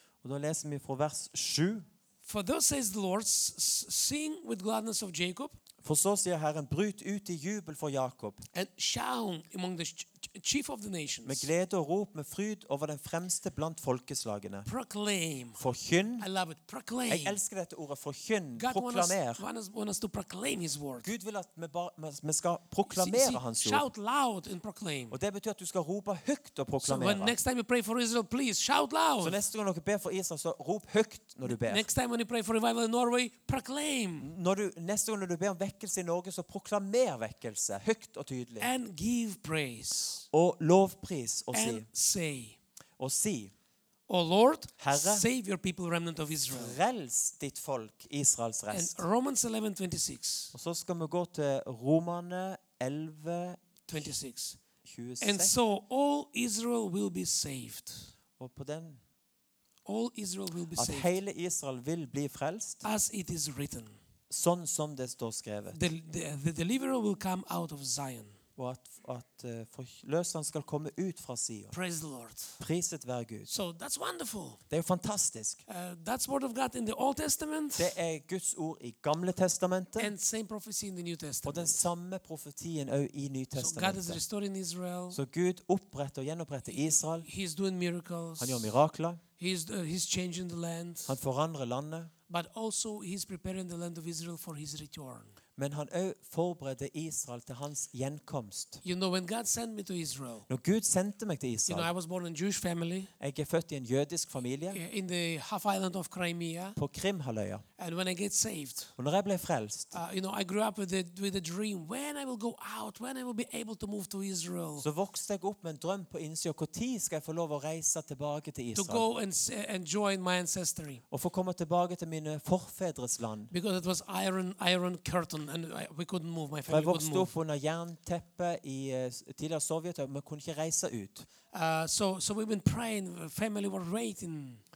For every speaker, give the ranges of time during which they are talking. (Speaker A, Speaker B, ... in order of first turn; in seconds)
Speaker A: 0.2-1.9, 5.8-8.4, 11.2-14.7, 15.6-16.3, 17.1-19.4, 21.0-23.9, 25.1-27.4, 29.2-31.9, 34.2-38.7, 40.3-41.9, 43.0-43.5, 44.8-45.3, 46.5-49.0, 50.5-53.6, 54.8-55.6, 58.4-59.0, 60.8-62.9, 64.3-65.8, 68.6-71.8, 72.6-73.5, 74.7-75.6, 77.8-80.1, 81.5-84.2, 85.1-87.3, 88.4-89.2, 91.1-92.1, 95.6-98.8, 100.5-101.9, 103.2-104.8, 106.8-107.7, 109.0-110.0, 114.8-119.1, 121.1-123.5, 126.7-131.3
Speaker B: 2.2-5.6, 8.5-11.5, 14.7-15.7, 16.2-17.4, 18.6-21.1, 22.9-25.2, 26.8-29.4, 31.4-34.3, 38.6-40.3, 41.5-42.6, 44.1-46.8, 48.7-50.5, 53.9-54.6, 55.2-58.1, 59.9-61.1, 62.8-64.0, 65.7-68.4, 71.7-72.6, 73.5-74.6, 75.7-77.9, 80.0-81.9, 83.6-85.2, 86.7-88.7, 89.4-91.2, 92.3-95.4, 98.8-100.5, 101.7-103.1, 104.7-106.8, 107.8-109.0, 109.9-114.9, 118.7-121.0, 123.5-127.3, 131.5-134.6